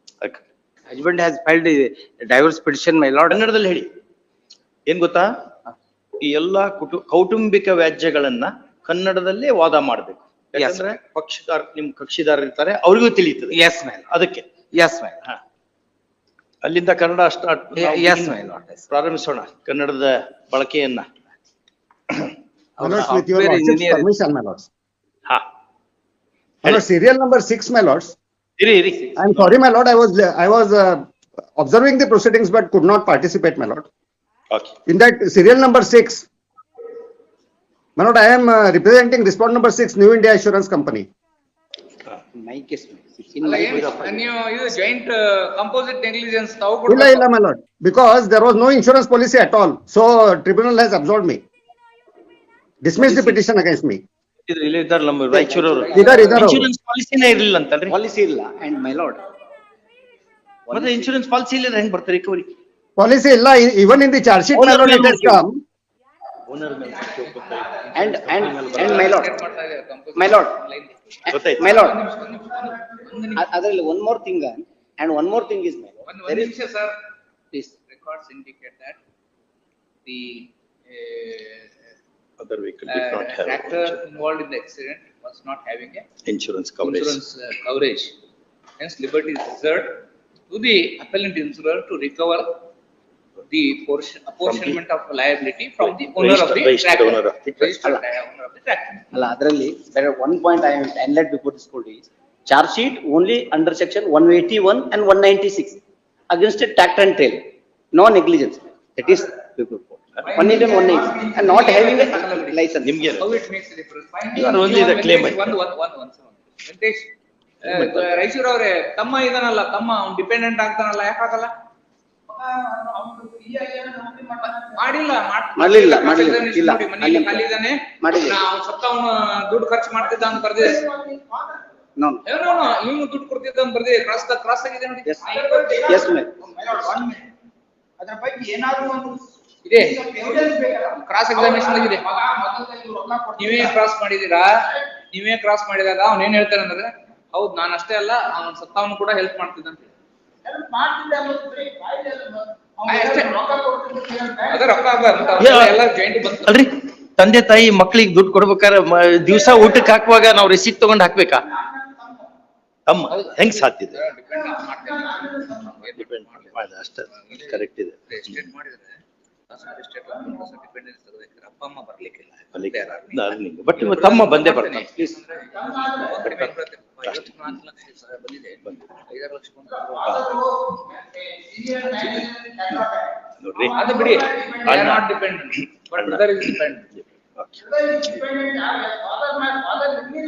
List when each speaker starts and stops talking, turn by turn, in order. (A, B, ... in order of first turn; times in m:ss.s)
0:00.9-0:03.4 A
0:03.3-0:03.9 B
0:04.9-0:05.3 B
0:06.2-0:14.5 B
0:10.6-0:10.9 A
0:13.5-0:14.0 A
0:14.7-0:15.2 A
0:16.6-0:21.2 B
0:17.8-0:18.8 A
0:22.8-0:24.7 C
0:26.6-0:28.2 C
0:28.6-0:29.5 B
0:29.2-0:31.0 C
0:31.6-0:33.8 C
0:34.9-0:36.2 C
0:38.0-0:41.1 C
0:42.4-0:44.2 A
0:43.4-0:47.3 D
0:46.9-0:51.4 C
0:52.8-0:54.0 C
0:53.0-0:53.4 B
0:54.5-0:58.0 B
0:55.4-0:56.4 A
0:55.9-0:56.7 C
0:57.9-0:59.2 A
1:00.7-1:01.1 A
1:00.7-1:02.5 B
1:03.0-1:05.6 C
1:04.6-1:05.4 B
1:06.5-1:09.2 B
1:08.0-1:09.3 A
1:08.2-1:13.5 D
1:10.2-1:10.6 A
1:11.3-1:11.8 B
1:11.6-1:12.0 A
1:13.4-1:16.5 A
1:16.0-1:17.0 D
1:17.9-1:19.0 D
1:20.1-1:21.7 D
1:22.4-1:24.0 B
1:22.9-1:26.1 D
1:26.3-1:27.2 B
1:26.8-1:28.2 D
1:28.8-1:32.6 D
1:33.5-1:39.1 D
1:34.4-1:34.8 B
1:35.8-1:37.8 B
1:39.1-1:53.0 A
1:50.3-1:57.1 D
1:52.8-1:53.3 B
1:54.3-1:55.6 B
1:57.6-2:01.5 D
2:02.9-2:04.1 A
2:04.6-2:10.8 D
2:05.6-2:07.5 A
2:08.0-2:08.4 A
2:12.0-2:12.2 A
2:12.2-2:16.2 D
2:15.0-2:16.5 A
2:18.1-2:19.1 A
2:19.6-2:22.1 D
2:23.4-2:29.9 D
2:30.8-2:32.2 A
2:32.8-2:33.5 D
2:34.1-2:36.6 D
2:35.4-2:35.8 B
2:36.4-2:41.4 B
2:42.9-2:44.0 B
2:43.1-2:47.6 D
2:46.0-2:48.4 B
2:48.1-3:00.4 D
2:52.6-2:55.1 B
2:56.2-2:56.5 B
2:57.0-2:57.5 B
3:00.0-3:00.3 B
3:01.7-3:02.3 B
3:03.4-3:03.9 B
3:03.7-3:06.9 D
3:04.6-3:05.0 B
3:07.0-3:08.4 B
3:08.5-3:10.2 A